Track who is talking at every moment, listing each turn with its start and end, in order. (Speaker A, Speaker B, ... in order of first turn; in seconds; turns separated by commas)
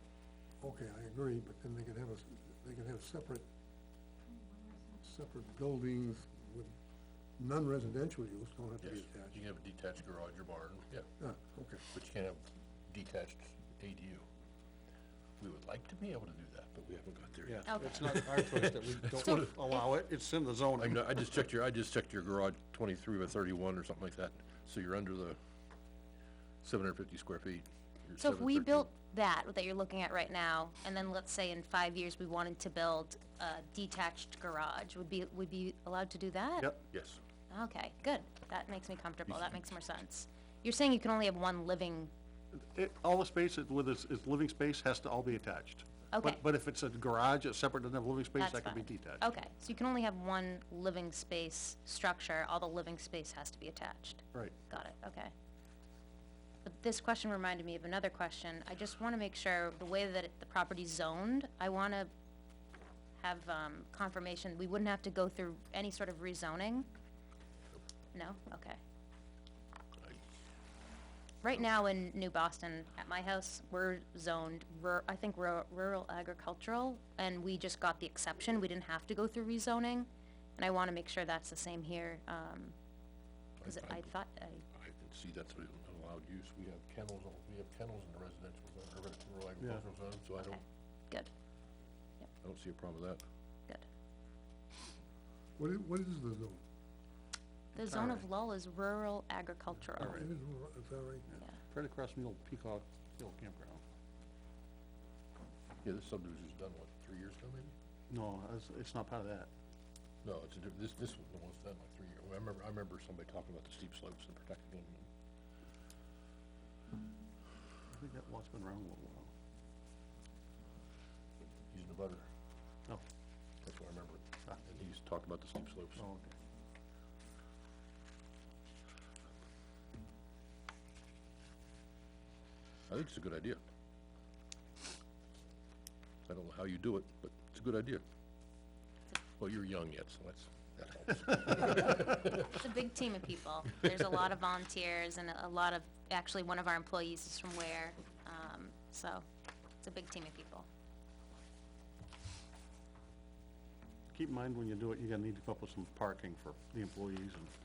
Speaker A: 0.6-3.5, Speaker A: 4.9-6.7, Speaker A: 7.4-9.4, Speaker B: 8.8-11.1, Speaker A: 11.2-11.8, Speaker B: 11.9-14.2, Speaker B: 15.4-19.5, Speaker C: 17.4-21.2, Speaker D: 17.7-18.2, Speaker D: 19.2-19.8, Speaker B: 20.8-25.4, Speaker B: 26.6-28.9, Speaker D: 28.2-36.7, Speaker B: 36.9-37.2, Speaker D: 37.5-42.1, Speaker C: 42.5-49.4, Speaker D: 46.1-46.4, Speaker D: 48.4-55.3, Speaker D: 56.6-62.1, Speaker D: 63.2-66.9, Speaker D: 68.1-68.8, Speaker D: 71.4-82.7, Speaker B: 83.6-84.1, Speaker D: 83.6-84.6, Speaker B: 84.7-90.6, Speaker D: 90.4-91.3, Speaker B: 92.4-93.2, Speaker A: 95.6-96.6, Speaker D: 97.7-100.2, Speaker C: 97.8-98.2, Speaker A: 100.0-101.2, Speaker C: 100.0-100.3, Speaker C: 101.3-103.8, Speaker B: 105.8-107.7, Speaker C: 108.1-109.5, Speaker B: 110.2-115.1, Speaker C: 117.9-119.3, Speaker B: 121.7-122.2, Speaker B: 123.6-126.0, Speaker C: 126.0-126.3, Speaker B: 132.9-133.6, Speaker B: 136.3-138.0, Speaker B: 139.4-142.6, Speaker D: 142.5-149.2, Speaker D: 149.8-150.7, Speaker C: 154.1-157.5